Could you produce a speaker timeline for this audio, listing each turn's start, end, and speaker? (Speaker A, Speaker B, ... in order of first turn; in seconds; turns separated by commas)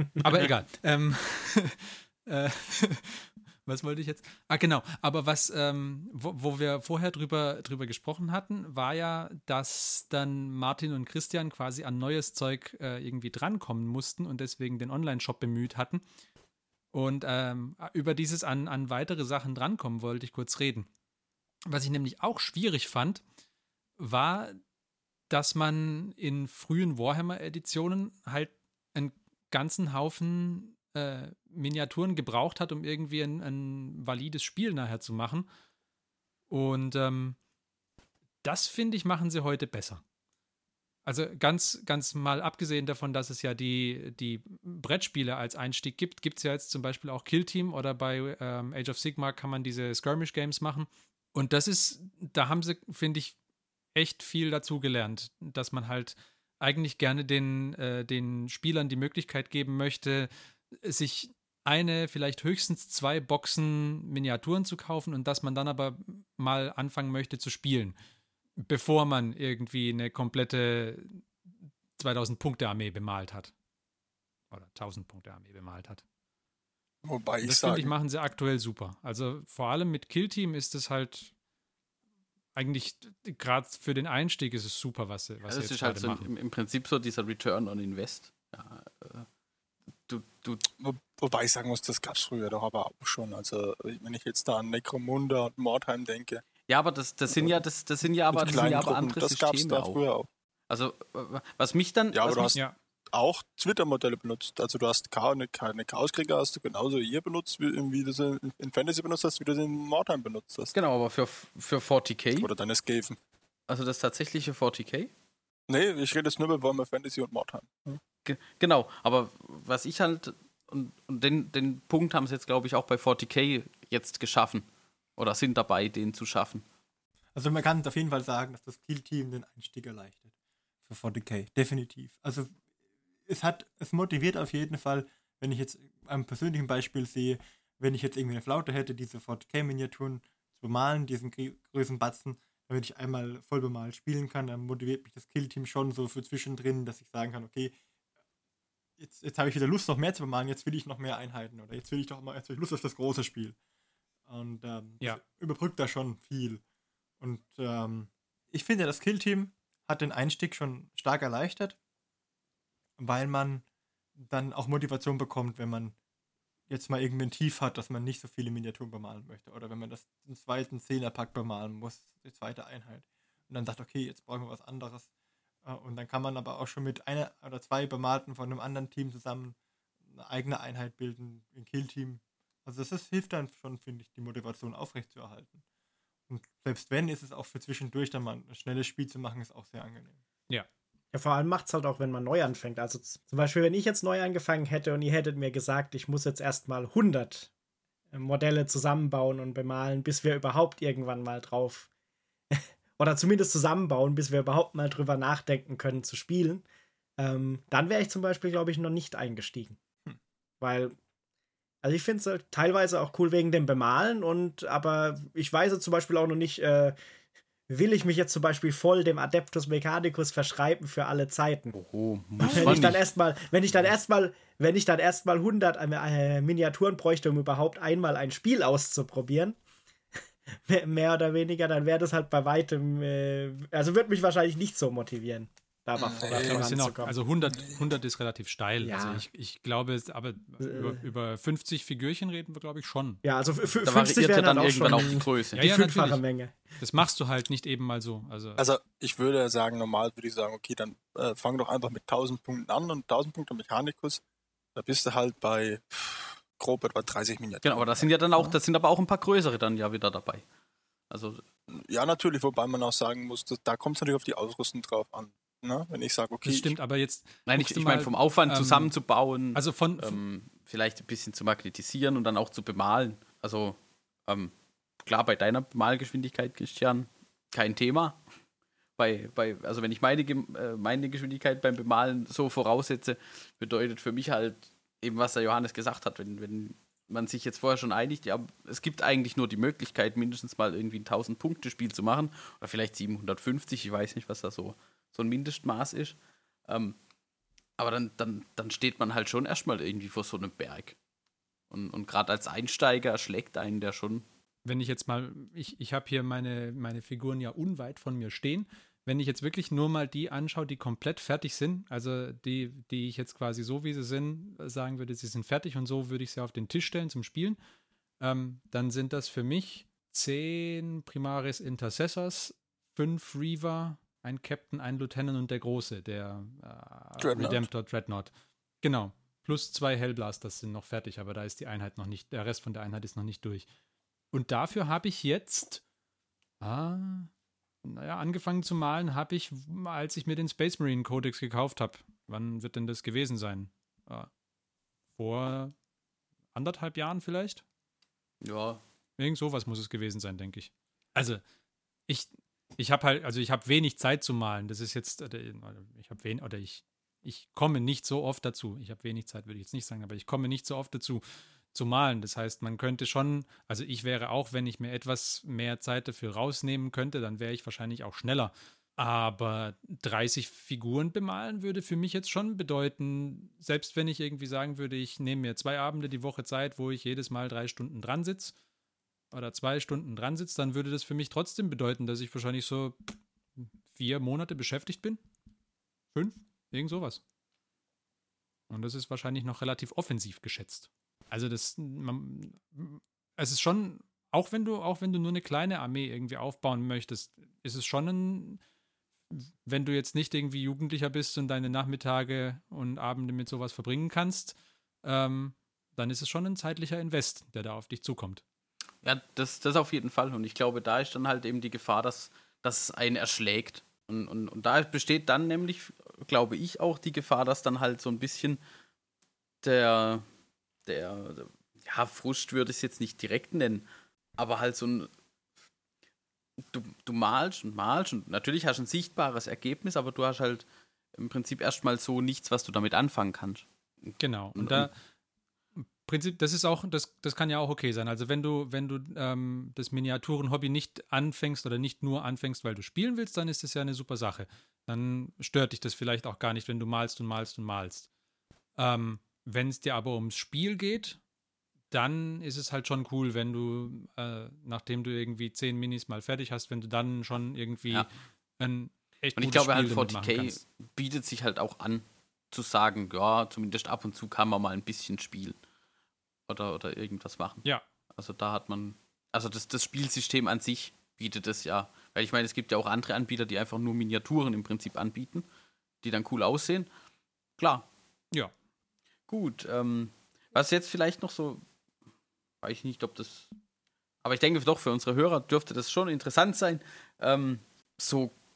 Speaker A: 0.2-16.0, Speaker A: 16.9-20.9, Speaker A: 21.7-23.2, Speaker A: 24.0-24.6, Speaker A: 25.3-35.5, Speaker A: 36.5-37.4, Speaker A: 38.4-40.0, Speaker A: 41.0-53.4, Speaker A: 54.0-68.0, Speaker A: 68.6-71.2, Speaker A: 72.0-73.5, Speaker A: 74.5-76.0, Speaker B: 77.0-77.9, Speaker A: 77.4-81.3, Speaker A: 82.6-86.3, Speaker C: 85.5-89.3, Speaker C: 90.1-90.7, Speaker B: 90.7-96.5, Speaker C: 96.7-100.0, Speaker B: 98.3-100.3, Speaker A: 98.5-98.9, Speaker C: 100.7-102.6, Speaker B: 102.1-102.6, Speaker B: 103.1-110.8, Speaker C: 110.7-112.5, Speaker B: 112.4-113.2, Speaker C: 113.7-115.1, Speaker B: 115.7-118.0, Speaker C: 118.2-124.7, Speaker C: 125.2-126.7, Speaker D: 127.4-130.3, Speaker D: 130.9-132.6, Speaker D: 133.3-147.8, Speaker D: 149.0-153.6, Speaker D: 154.3-156.6, Speaker D: 157.2-161.8, Speaker D: 163.0-163.6, Speaker D: 164.2-165.9, Speaker D: 166.7-175.1, Speaker D: 175.6-179.6, Speaker D: 180.1-185.6, Speaker D: 186.3-190.2, Speaker E: 191.1-197.5, Speaker E: 198.1-201.9, Speaker E: 202.5-206.7, Speaker E: 207.2-209.8, Speaker E: 210.6-211.0, Speaker E: 211.8-217.0, Speaker E: 217.7-221.8, Speaker C: 221.7-223.1, Speaker E: 222.4-229.6, Speaker B: 222.4-222.9, Speaker E: 230.6-237.2, Speaker B: 236.0-236.7, Speaker A: 236.2-243.2, Speaker B: 237.6-237.8, Speaker E: 238.8-239.2, Speaker E: 240.6-241.0, Speaker E: 243.2-246.6, Speaker C: 243.8-245.6, Speaker A: 245.6-246.2, Speaker A: 246.8-248.7, Speaker B: 248.6-254.2, Speaker B: 254.8-258.6, Speaker C: 257.6-260.4, Speaker C: 261.1-261.4, Speaker B: 261.7-266.8, Speaker A: 266.4-268.9, Speaker C: 267.5-274.5, Speaker A: 269.6-270.2, Speaker C: 275.0-278.2, Speaker C: 279.0-297.0, Speaker C: 297.8-301.0, Speaker C: 301.7-304.2, Speaker A: 304.6-317.6, Speaker A: 318.2-328.3, Speaker B: 327.2-327.7, Speaker A: 328.8-333.7, Speaker A: 334.3-335.8, Speaker A: 336.6-337.3, Speaker A: 337.8-344.3, Speaker A: 345.1-345.7, Speaker A: 346.5-347.6, Speaker C: 348.4-348.8, Speaker A: 349.2-351.4, Speaker A: 352.1-378.6, Speaker A: 379.3-383.0, Speaker A: 383.6-385.2, Speaker A: 386.1-387.2, Speaker A: 388.7-398.6, Speaker A: 399.3-408.4, Speaker C: 409.0-418.6, Speaker C: 419.6-420.2, Speaker C: 420.9-425.1, Speaker C: 426.7-433.7, Speaker A: 434.2-434.9, Speaker C: 434.6-434.9, Speaker A: 435.8-448.1, Speaker A: 448.8-451.2, Speaker A: 451.9-458.1, Speaker A: 458.6-460.6, Speaker C: 459.4-465.6, Speaker C: 466.5-475.5, Speaker C: 476.0-476.9, Speaker C: 477.6-477.9, Speaker C: 479.3-481.6, Speaker C: 482.6-483.5, Speaker C: 484.2-488.3